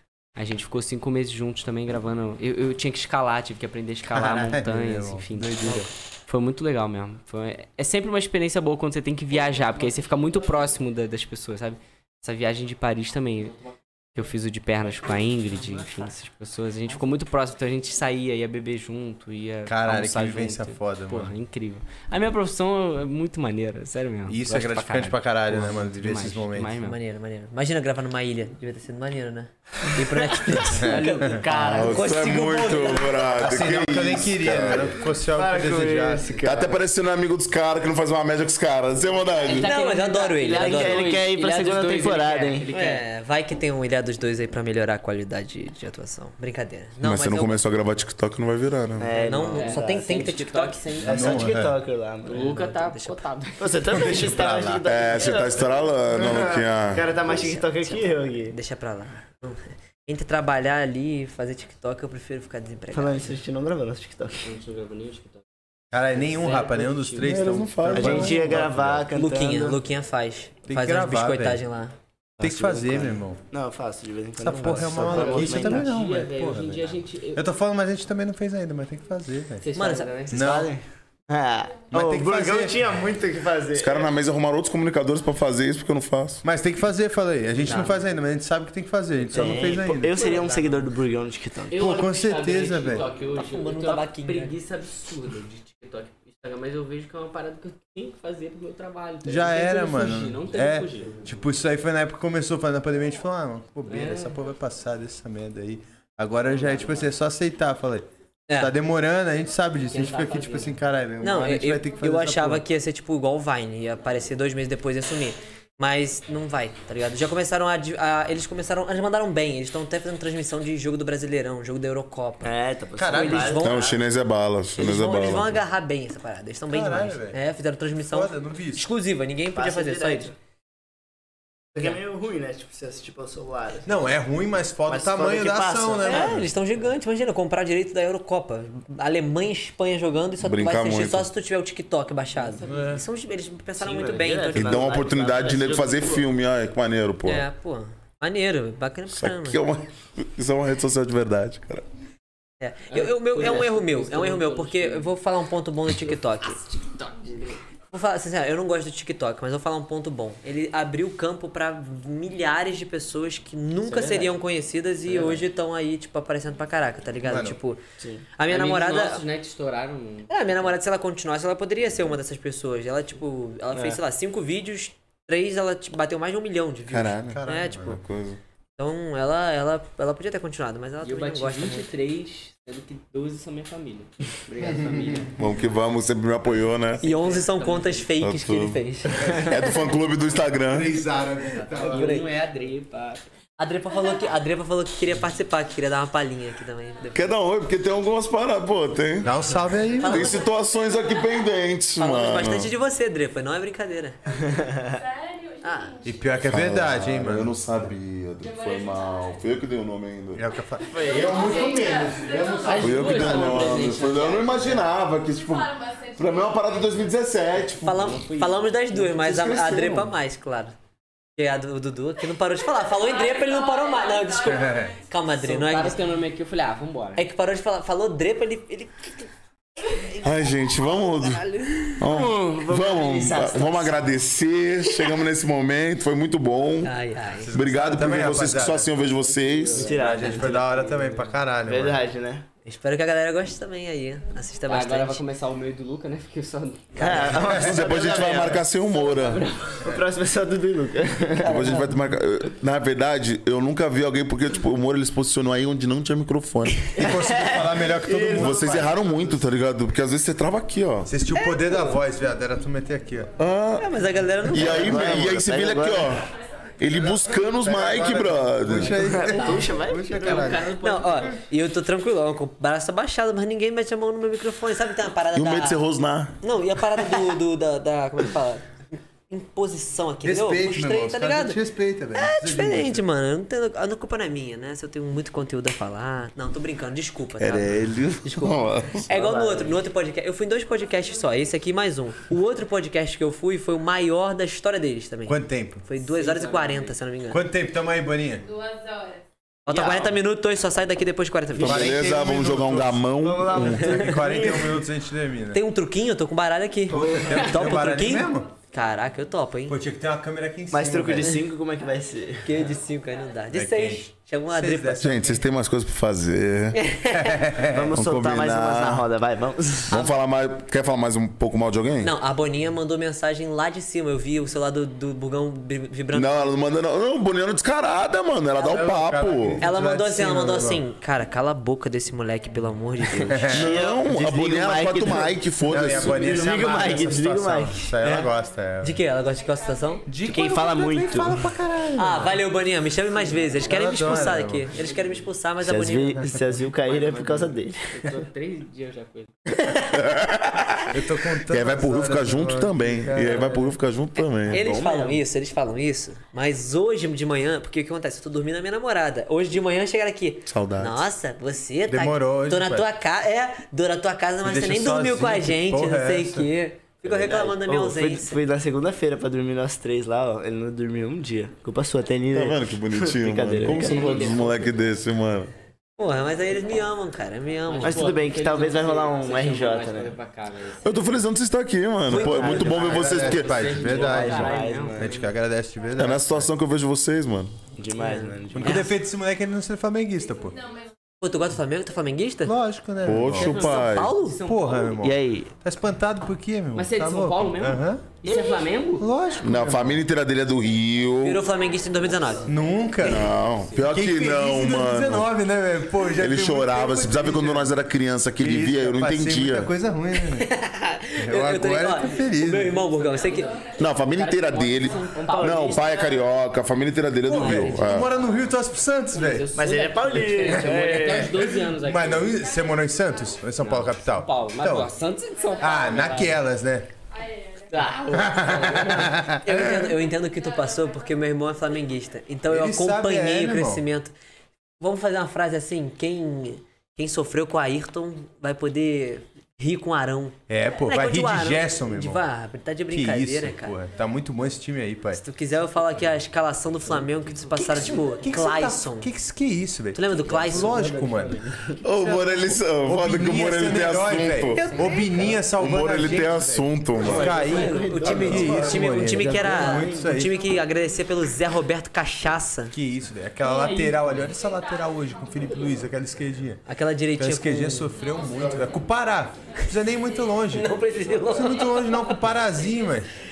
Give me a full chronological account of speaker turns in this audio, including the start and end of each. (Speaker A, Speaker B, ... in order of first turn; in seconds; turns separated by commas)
Speaker A: 0.4-27.0, Speaker B: 4.1-5.9, Speaker B: 19.6-21.3, Speaker B: 24.3-26.7, Speaker C: 26.8-33.4, Speaker A: 30.7-32.1, Speaker B: 30.7-31.1, Speaker D: 31.6-35.0, Speaker B: 33.3-36.5, Speaker E: 35.1-36.8, Speaker D: 36.4-39.7, Speaker A: 39.4-43.0, Speaker C: 39.4-41.0, Speaker E: 40.5-42.7, Speaker C: 42.7-47.6, Speaker D: 47.0-49.1, Speaker E: 49.0-50.0, Speaker A: 49.1-51.5, Speaker C: 49.3-50.8, Speaker E: 51.0-52.5, Speaker B: 51.0-51.8, Speaker A: 52.3-54.0, Speaker C: 52.3-53.2, Speaker E: 53.6-58.5, Speaker B: 53.9-54.9, Speaker D: 54.9-57.4, Speaker C: 57.4-63.4, Speaker E: 62.9-64.5, Speaker A: 64.4-65.4, Speaker B: 65.9-69.1, Speaker A: 66.1-67.3, Speaker D: 67.2-68.9, Speaker E: 67.9-69.8, Speaker C: 69.1-71.9, Speaker B: 70.7-71.6, Speaker E: 72.4-76.0, Speaker B: 72.4-73.4, Speaker B: 74.4-79.7, Speaker A: 75.0-77.4, Speaker A: 79.6-80.4, Speaker C: 79.7-80.2, Speaker B: 80.3-80.7, Speaker E: 80.3-84.1, Speaker B: 81.9-82.8, Speaker D: 83.7-86.4, Speaker B: 86.4-90.3, Speaker C: 87.7-87.9, Speaker E: 89.3-91.9, Speaker C: 90.2-90.8, Speaker A: 90.2-90.7, Speaker A: 91.7-101.3, Speaker B: 91.7-93.1, Speaker C: 93.4-94.6, Speaker B: 99.2-112.6, Speaker A: 103.9-104.4, Speaker A: 106.4-107.1, Speaker C: 108.5-108.7, Speaker A: 109.9-110.8, Speaker C: 111.2-124.0, Speaker E: 122.4-123.9, Speaker B: 123.0-123.6, Speaker D: 123.6-125.6, Speaker C: 124.8-130.3, Speaker B: 126.7-127.4, Speaker B: 128.1-128.9, Speaker E: 129.6-130.3, Speaker E: 131.7-134.1, Speaker B: 133.9-136.4, Speaker E: 134.9-136.4, Speaker C: 136.0-144.9, Speaker D: 140.4-141.3, Speaker A: 142.4-142.9, Speaker B: 142.7-143.0, Speaker E: 143.8-146.2, Speaker D: 144.6-147.4, Speaker C: 147.2-149.6, Speaker D: 149.1-151.8, Speaker C: 152.6-156.6, Speaker A: 152.9-155.1, Speaker A: 156.7-157.6, Speaker C: 157.9-167.8, Speaker A: 163.9-164.3, Speaker A: 165.1-165.4, Speaker B: 167.2-167.6, Speaker E: 168.0-168.2, Speaker C: 168.4-169.2, Speaker A: 168.5-170.7, Speaker C: 170.3-178.0, Speaker E: 173.7-174.0, Speaker D: 176.9-178.4, Speaker B: 177.3-178.0, Speaker C: 178.8-181.9, Speaker A: 181.0-185.4, Speaker B: 184.6-185.3, Speaker D: 185.4-187.0, Speaker A: 187.0-188.1, Speaker C: 187.0-189.6, Speaker D: 188.2-190.9, Speaker B: 189.2-189.6, Speaker B: 190.7-192.3, Speaker A: 191.7-193.2, Speaker C: 193.6-197.3, Speaker D: 197.1-199.4, Speaker B: 199.2-200.3, Speaker C: 199.9-200.5, Speaker D: 200.0-202.7, Speaker C: 202.0-204.2, Speaker F: 204.5-206.6, Speaker C: 205.6-206.0, Speaker B: 206.0-207.6, Speaker D: 206.4-210.5, Speaker F: 208.4-209.6, Speaker B: 210.3-213.9, Speaker A: 210.9-211.3, Speaker F: 210.9-213.4, Speaker D: 211.5-212.0, Speaker A: 212.6-214.7, Speaker D: 212.8-218.2, Speaker F: 215.2-217.2, Speaker A: 217.8-219.2, Speaker C: 217.8-220.7, Speaker D: 219.2-220.1, Speaker C: 221.4-226.0, Speaker F: 222.8-225.0, Speaker B: 224.4-224.9, Speaker A: 225.4-227.2, Speaker C: 227.2-229.3, Speaker C: 229.9-230.3, Speaker D: 230.2-231.4, Speaker C: 231.3-232.0, Speaker D: 232.0-236.9, Speaker E: 232.1-234.1, Speaker C: 236.8-237.5, Speaker B: 237.4-238.9, Speaker D: 237.5-239.9, Speaker A: 239.3-241.3, Speaker E: 239.7-240.6, Speaker B: 239.9-242.0, Speaker E: 241.7-242.4, Speaker C: 242.7-245.2, Speaker A: 244.7-247.4, Speaker E: 247.0-248.7, Speaker B: 247.2-247.9, Speaker D: 247.5-249.4, Speaker A: 249.0-249.9, Speaker E: 249.8-251.9, Speaker D: 251.4-257.1, Speaker B: 256.9-259.0, Speaker E: 257.0-259.3, Speaker D: 258.3-261.1, Speaker B: 261.1-263.3, Speaker C: 261.4-261.9, Speaker D: 263.4-263.9, Speaker C: 263.8-265.2, Speaker D: 264.4-266.3, Speaker E: 264.6-266.2, Speaker D: 266.8-269.0, Speaker B: 267.1-270.7, Speaker E: 268.9-270.6, Speaker A: 269.1-271.4, Speaker C: 270.8-275.9, Speaker D: 275.3-276.4, Speaker C: 276.4-278.7, Speaker C: 279.3-281.6, Speaker B: 280.2-283.0, Speaker C: 282.1-297.4, Speaker D: 287.4-289.1, Speaker E: 289.1-289.8, Speaker B: 295.3-295.9, Speaker A: 296.0-297.0, Speaker B: 297.3-298.4, Speaker F: 298.4-299.2, Speaker C: 299.6-302.0, Speaker E: 299.7-300.1, Speaker D: 301.6-303.8, Speaker B: 301.6-305.6, Speaker E: 303.2-304.7, Speaker C: 303.7-304.5, Speaker C: 305.5-309.8, Speaker B: 306.9-308.5, Speaker E: 306.9-307.4, Speaker B: 309.7-311.4, Speaker E: 310.7-312.7, Speaker C: 312.4-315.1, Speaker B: 313.5-315.4, Speaker D: 315.0-316.8, Speaker C: 316.7-317.4, Speaker B: 317.1-317.9, Speaker E: 317.7-320.0, Speaker D: 317.9-319.1, Speaker D: 319.9-322.1, Speaker C: 322.0-326.6, Speaker D: 326.1-329.6, Speaker B: 328.6-330.8, Speaker C: 329.6-333.7, Speaker B: 333.2-333.8, Speaker E: 333.4-338.2, Speaker D: 333.5-336.5, Speaker B: 335.6-339.0, Speaker C: 338.8-340.1, Speaker F: 339.6-340.2, Speaker B: 340.1-342.4, Speaker E: 340.2-341.6, Speaker C: 341.9-346.2, Speaker B: 343.6-344.7, Speaker A: 344.8-345.1, Speaker E: 345.6-348.0, Speaker A: 346.8-349.3, Speaker C: 349.5-350.0, Speaker D: 349.9-354.8, Speaker B: 350.9-353.6, Speaker C: 354.2-368.4, Speaker E: 354.5-355.2, Speaker D: 360.5-361.0, Speaker B: 361.9-362.9, Speaker B: 364.4-366.5, Speaker E: 367.1-374.5, Speaker D: 372.3-375.5, Speaker A: 373.6-374.7, Speaker C: 376.0-378.1, Speaker A: 377.7-380.9, Speaker E: 377.8-380.1, Speaker D: 380.8-383.6, Speaker E: 382.1-385.3, Speaker B: 382.1-386.5, Speaker C: 382.1-382.7, Speaker A: 382.9-385.3, Speaker D: 385.9-387.6, Speaker E: 387.8-388.9, Speaker C: 388.0-389.0, Speaker B: 388.5-390.6, Speaker F: 390.4-390.9, Speaker C: 391.2-392.6, Speaker B: 392.4-393.7, Speaker D: 393.0-394.1, Speaker A: 393.3-395.0, Speaker C: 393.6-394.4, Speaker B: 394.4-398.1, Speaker E: 395.0-395.5, Speaker A: 396.7-399.1, Speaker E: 398.2-398.6, Speaker B: 399.0-400.0, Speaker D: 399.4-401.5, Speaker C: 401.2-402.5, Speaker B: 402.4-407.8, Speaker D: 403.0-405.3, Speaker D: 406.1-409.7, Speaker B: 408.4-410.5, Speaker C: 410.3-413.6, Speaker B: 411.2-412.8, Speaker A: 412.9-416.2, Speaker F: 413.2-413.8, Speaker D: 413.8-418.1, Speaker B: 417.3-419.5, Speaker C: 417.4-417.9, Speaker A: 417.9-418.5, Speaker A: 419.1-422.5, Speaker E: 419.6-421.4, Speaker B: 420.4-424.9, Speaker F: 422.5-423.4, Speaker A: 423.6-426.4, Speaker F: 425.4-426.2, Speaker B: 425.6-426.9, Speaker F: 427.1-428.6, Speaker A: 427.7-429.2, Speaker B: 428.1-429.9, Speaker C: 429.4-434.1, Speaker F: 430.1-431.3, Speaker B: 432.5-433.8, Speaker C: 434.8-443.8, Speaker B: 440.5-442.2, Speaker B: 442.9-445.2, Speaker C: 445.1-449.1, Speaker B: 447.6-451.4, Speaker C: 449.9-450.9, Speaker A: 450.3-451.4, Speaker D: 451.8-454.7, Speaker B: 452.0-460.4, Speaker C: 454.5-455.3, Speaker D: 455.5-457.4, Speaker E: 457.0-460.0, Speaker C: 457.3-462.7, Speaker A: 457.3-458.3, Speaker B: 462.7-466.6, Speaker A: 463.4-464.2, Speaker C: 466.6-467.9, Speaker B: 467.2-470.7, Speaker C: 470.5-472.2, Speaker B: 471.3-473.1